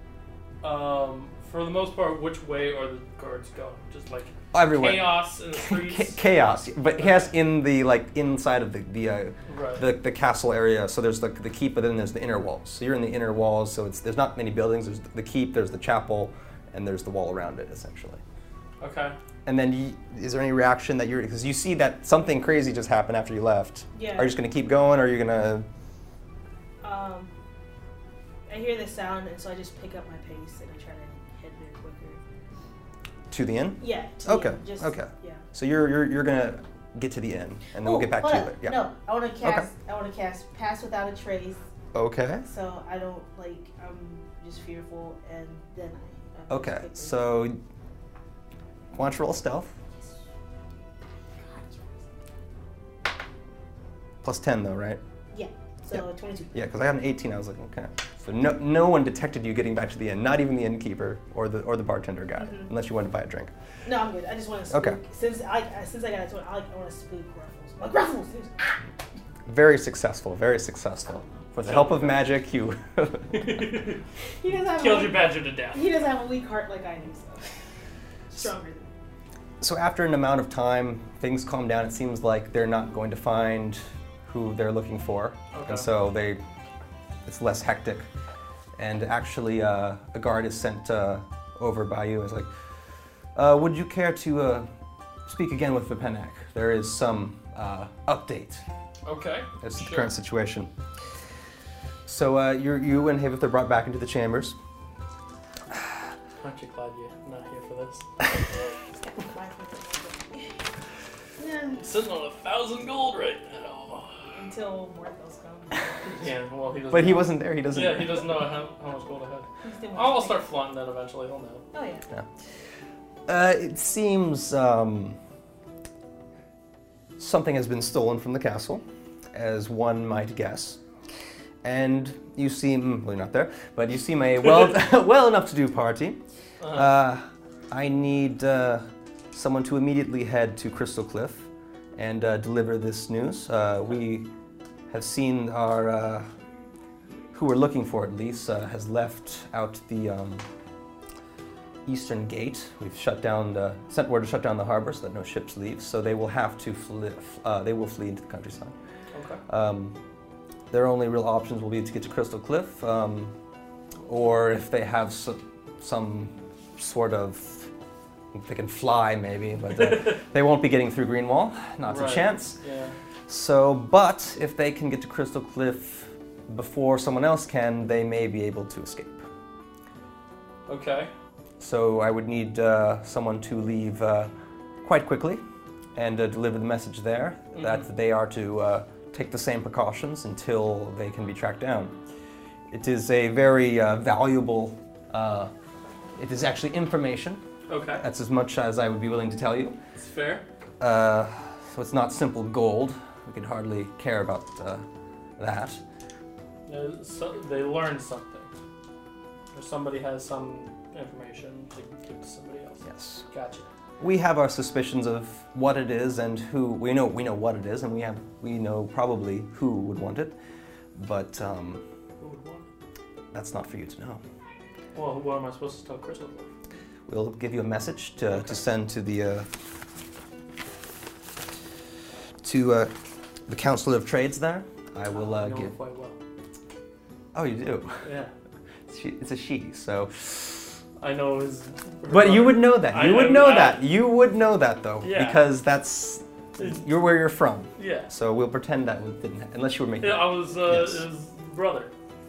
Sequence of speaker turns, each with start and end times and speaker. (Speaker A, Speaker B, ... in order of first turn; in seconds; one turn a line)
Speaker A: 0.6-6.3
Speaker B: 4.5-18.2
Speaker A: 7.0-7.3
Speaker A: 9.5-9.8
Speaker A: 18.8-19.1
Speaker B: 19.4-25.6
Speaker C: 23.9-24.4
Speaker C: 26.8-27.3
Speaker C: 28.5-32.2
Speaker B: 33.3-38.8
Speaker C: 33.8-35.4
Speaker C: 37.8-41.6
Speaker B: 39.4-39.7
Speaker B: 41.9-42.4
Speaker C: 42.5-47.2
Speaker B: 46.5-47.6
Speaker B: 48.9-49.7
Speaker C: 51.4-51.9
Speaker B: 54.2-55.0
Speaker C: 55.3-56.6
Speaker B: 56.5-63.5
Speaker C: 62.4-62.7
Speaker C: 63.8-68.8
Speaker B: 64.7-65.0
Speaker B: 69.5-73.6
Speaker A: 71.6-72.2
Speaker A: 73.3-74.0
Speaker C: 74.4-77.5
Speaker A: 74.7-75.9
Speaker C: 78.3-78.9
Speaker B: 79.6-86.4
Speaker A: 85.5-85.9
Speaker B: 87.2-88.1
Speaker B: 88.8-92.5
Speaker B: 93.3-94.7
Speaker B: 95.2-98.6
Speaker A: 99.0-100.1
Speaker B: 99.6-100.7
Speaker B: 102.0-104.5
Speaker A: 106.4-108.0
Speaker C: 108.9-110.6
Speaker C: 111.4-111.8
Speaker A: 111.8-114.3
Speaker C: 114.3-116.3
Speaker A: 116.2-121.6
Speaker B: 116.9-118.4
Speaker C: 119.6-120.4
Speaker C: 121.7-122.0
Speaker B: 123.3-125.2
Speaker B: 127.2-130.8
Speaker B: 131.6-144.3
Speaker A: 136.6-136.9
Speaker B: 144.9-146.3
Speaker B: 147.3-150.4
Speaker B: 151.8-158.7
Speaker A: 159.1-159.4
Speaker B: 159.5-160.0
Speaker B: 160.7-163.3
Speaker B: 164.0-167.7
Speaker B: 168.3-172.6
Speaker A: 169.8-170.2
Speaker A: 171.9-172.9
Speaker B: 173.3-179.2
Speaker A: 180.7-181.1
Speaker B: 181.6-184.3
Speaker B: 184.8-185.4
Speaker B: 185.9-191.9
Speaker A: 187.5-187.8
Speaker B: 192.7-195.5
Speaker B: 196.2-197.4
Speaker A: 197.7-198.0
Speaker B: 198.0-199.8
Speaker A: 200.0-200.4
Speaker B: 200.8-204.8
Speaker B: 205.4-205.8
Speaker A: 206.7-208.5
Speaker A: 209.5-213.7
Speaker B: 212.8-213.2
Speaker B: 214.0-220.3
Speaker B: 220.9-221.8
Speaker A: 222.2-222.7
Speaker B: 223.3-224.2
Speaker A: 224.9-226.5
Speaker B: 227.1-229.5
Speaker A: 228.3-228.6
Speaker B: 232.4-232.9
Speaker B: 233.5-235.7
Speaker A: 235.1-236.2
Speaker B: 237.3-238.1
Speaker A: 238.0-238.3
Speaker B: 238.9-240.5
Speaker A: 241.0-243.8
Speaker B: 242.1-251.0
Speaker A: 245.0-245.4
Speaker A: 246.6-246.8
Speaker A: 247.8-248.1
Speaker A: 250.0-251.9